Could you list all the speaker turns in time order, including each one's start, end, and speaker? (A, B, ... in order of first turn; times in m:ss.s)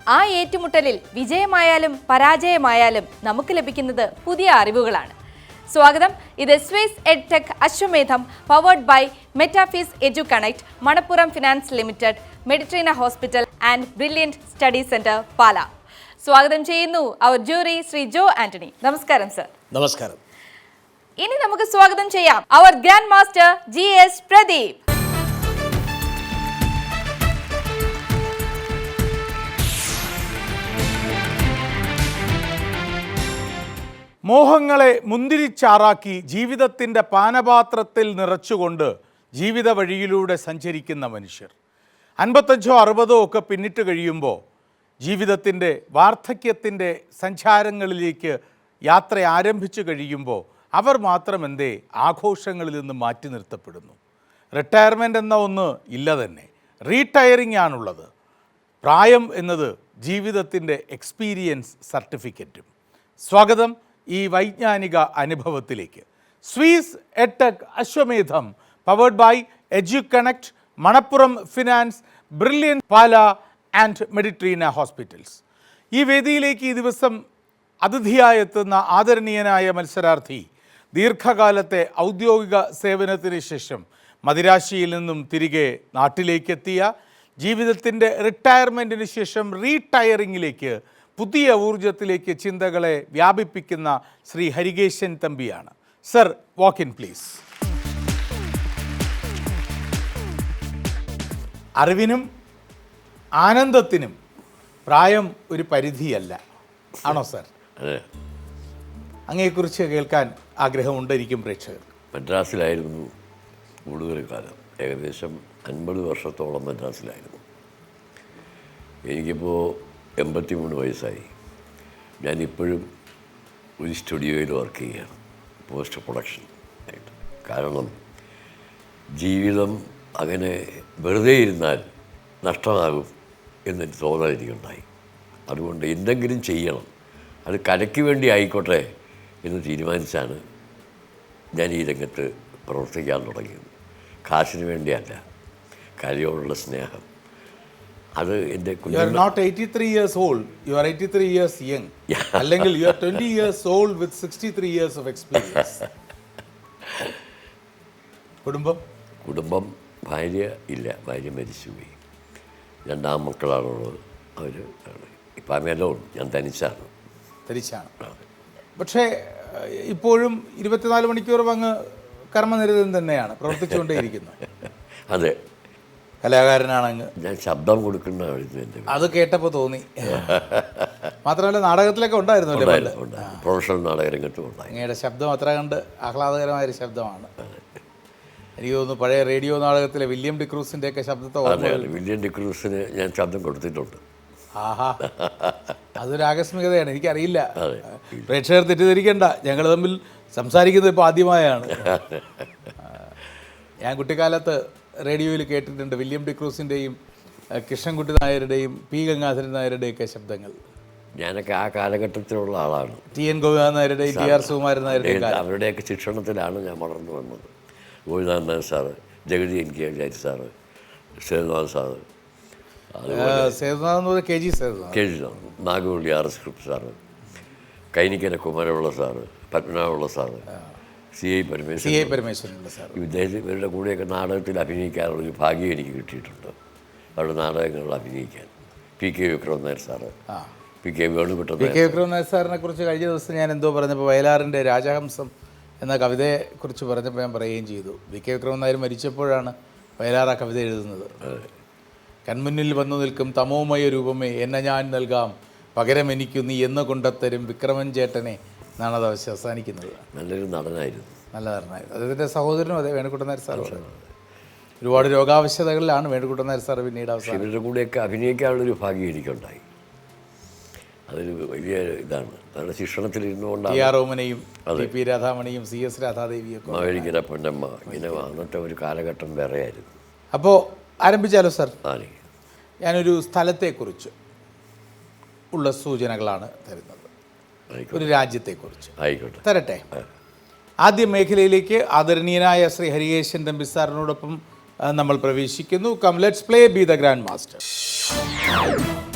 0:00.1-0:05.1 A
0:05.7-0:15.7 A
0:16.2-0:19.5 A
0:19.7-0:20.2 B
0:21.2-0:24.8 A
0:34.2-0:41.5 B
0:42.2-0:44.4 B
0:45.0-0:54.0 B
0:54.6-0:58.1 B
0:58.8-1:02.7 B
1:03.2-1:15.4 B
1:15.9-1:17.2 B
1:17.8-1:26.9 B
1:27.4-1:37.4 B
1:41.8-1:42.2 B
1:43.4-1:44.1 B
1:44.9-1:46.4 B
1:47.0-1:47.5 B
1:47.8-1:48.0 C
1:49.3-1:51.9 B
1:52.1-1:53.1 C
1:53.9-1:57.4 C
1:59.1-2:01.3 C
2:02.2-2:02.9 C
2:03.8-2:08.0 C
2:09.2-2:11.9 C
2:12.4-2:13.1 C
2:13.7-2:14.8 C
2:15.5-2:16.9 C
2:17.4-2:18.9 C
2:19.4-2:20.4 C
2:21.6-2:23.7 C
2:24.2-2:25.2 C
2:26.0-2:27.1 C
2:28.2-2:29.3 C
2:28.9-2:35.9 B
2:32.1-2:33.2 C
2:38.4-2:38.8 B
2:39.2-2:41.9 C
2:42.9-2:46.9 C
2:47.5-2:47.9 B
2:48.8-2:51.8 B
2:52.3-2:54.4 B
2:55.1-2:55.4 C
2:56.2-2:57.1 B
2:57.2-2:59.2 C
2:58.9-3:00.4 B
3:00.1-3:01.1 C
3:01.2-3:03.4 B
3:02.5-3:04.8 C
3:04.7-3:07.3 B
3:08.6-3:11.9 B
3:11.4-3:14.0 C
3:14.6-3:15.0 B
3:15.0-3:15.8 C
3:16.0-3:22.0 B
3:17.6-3:18.2 C
3:21.8-3:22.4 C
3:23.8-3:27.0 B
3:27.6-3:30.6 B
3:31.2-3:33.1 C
3:33.1-3:35.4 B
3:34.1-3:37.5 C
3:38.1-3:40.5 C
3:41.2-3:42.0 C
3:42.9-3:43.6 C
3:43.1-3:45.0 B
3:44.9-3:47.0 C
3:47.9-3:50.5 C
3:51.2-3:52.2 C
3:51.8-3:53.0 B
3:52.9-3:56.6 C
3:57.2-4:00.1 C
4:00.8-4:02.0 C
4:01.6-4:05.3 B
4:05.8-4:11.2 B
4:11.2-4:11.5 C
4:12.3-4:20.1 B
4:20.1-4:21.2 C
4:21.3-4:23.8 B
4:23.5-4:24.0 C
4:24.8-4:27.5 B
4:27.2-4:29.6 C
4:31.1-4:33.9 C
4:33.7-4:37.2 B
4:36.7-4:40.0 C
4:37.9-4:38.2 B
4:40.3-4:41.8 B
4:41.8-4:42.2 C
4:42.8-4:44.1 B
4:45.5-4:47.1 B
4:47.7-4:48.1 C
4:47.9-4:49.8 B
4:49.0-4:49.4 C
4:50.8-4:57.6 B